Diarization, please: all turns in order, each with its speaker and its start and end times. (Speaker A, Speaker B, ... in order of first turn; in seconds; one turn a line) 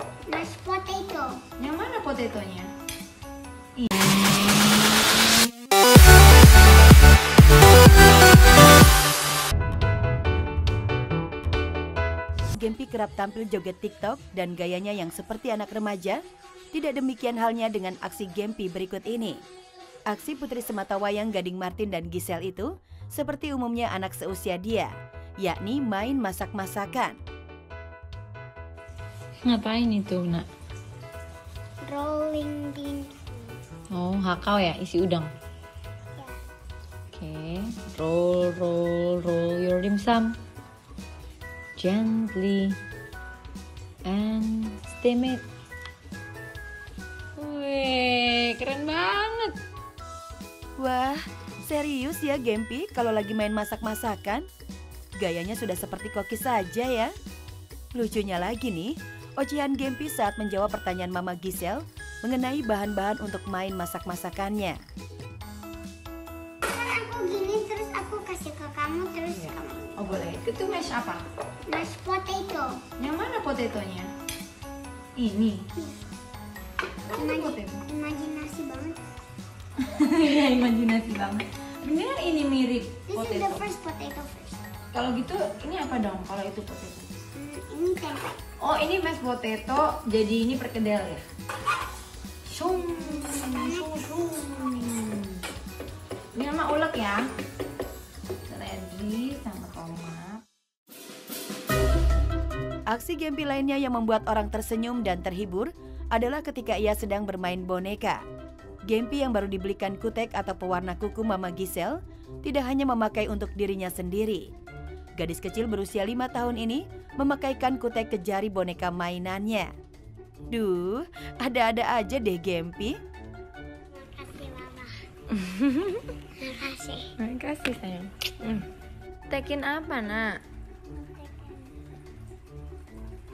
Speaker A: 0.3-1.4
Speaker B: 1.6-2.7
Speaker B: 3.8-4.2
Speaker C: 12.5-16.2
Speaker C: 16.7-19.4
Speaker C: 20.1-27.2
Speaker D: 29.4-30.5
Speaker A: 31.8-33.6
Speaker D: 33.9-35.3
Speaker D: 37.1-40.4
Speaker D: 41.8-42.7
Speaker D: 44.1-45.4
Speaker D: 47.4-49.5
Speaker C: 50.8-54.4
Speaker C: 55.2-57.1
Speaker C: 57.9-64.8
Speaker A: 66.7-70.0
Speaker B: 69.3-71.2
Speaker A: 71.7-72.8
Speaker B: 73.0-74.1
Speaker B: 75.2-75.7
Speaker B: 77.1-77.8
Speaker A: 77.1-79.0
Speaker B: 79.8-83.6
Speaker A: 83.1-84.6
Speaker B: 84.9-87.1
Speaker A: 87.3-88.4
Speaker B: 88.6-91.2
Speaker B: 92.5-95.4
Speaker A: 93.1-93.9
Speaker B: 96.3-97.2
Speaker B: 98.5-100.4
Speaker C: 102.9-108.2
Speaker C: 108.9-114.5
Speaker C: 115.2-119.7
Speaker C: 120.5-122.9
Speaker A: 123.9-125.0
Speaker D: 125.5-126.0
Speaker A: 126.4-127.1
Speaker D: 127.2-128.6
Speaker B: 129.3-130.3
Speaker D: 129.5-130.2
Speaker A: 130.9-131.8